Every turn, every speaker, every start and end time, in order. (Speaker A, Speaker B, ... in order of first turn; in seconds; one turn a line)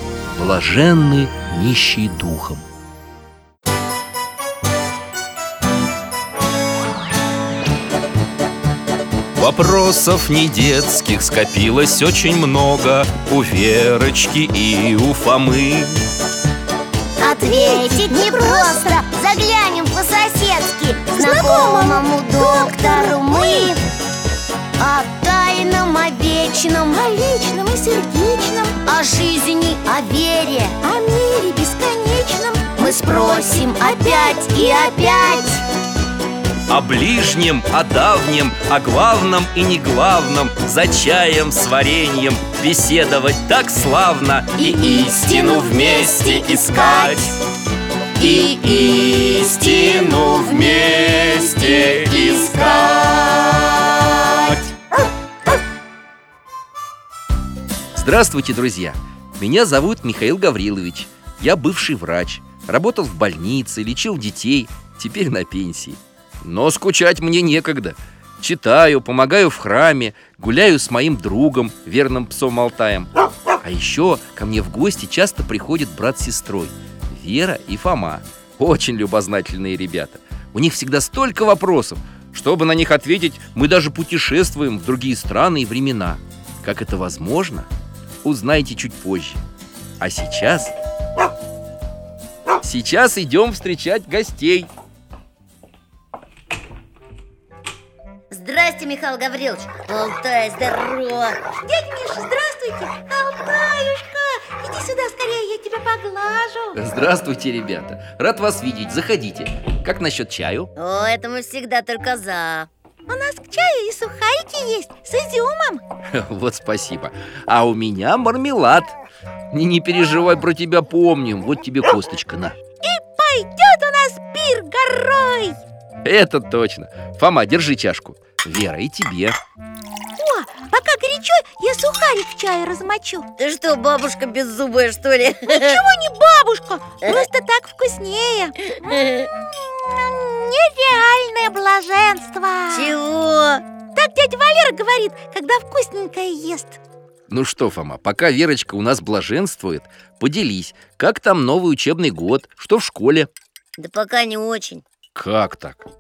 Speaker A: 0.3-2.6
Speaker A: 9.4-16.0
Speaker B: 17.2-19.0
Speaker C: 17.2-23.9
Speaker B: 21.2-23.7
Speaker C: 24.8-27.0
Speaker B: 26.9-28.8
Speaker C: 28.9-30.8
Speaker B: 30.8-35.6
Speaker C: 32.8-35.6
Speaker A: 36.7-47.4
Speaker C: 44.6-47.3
Speaker A: 48.2-53.7
Speaker C: 48.2-54.4
Speaker A: 58.0-87.7
Speaker A: 88.2-89.4
Speaker A: 90.0-90.7
Speaker A: 92.6-94.7
Speaker C: 98.3-101.4
Speaker B: 101.7-106.8
Speaker A: 106.8-110.7
Speaker C: 110.8-112.7
Speaker B: 113.1-115.8
Speaker A: 116.1-119.0
Speaker A: 119.5-122.6
Speaker B: 122.8-125.6
Speaker A: 126.0-129.4
Speaker B: 130.2-133.3
Speaker C: 133.4-135.8
Speaker B: 135.5-139.0
Speaker C: 138.8-139.3
Speaker B: 139.5-143.0
Speaker C: 142.7-143.6
Speaker B: 143.9-146.8
Speaker A: 147.3-153.3
Speaker C: 153.8-154.8
Speaker A: 155.2-155.8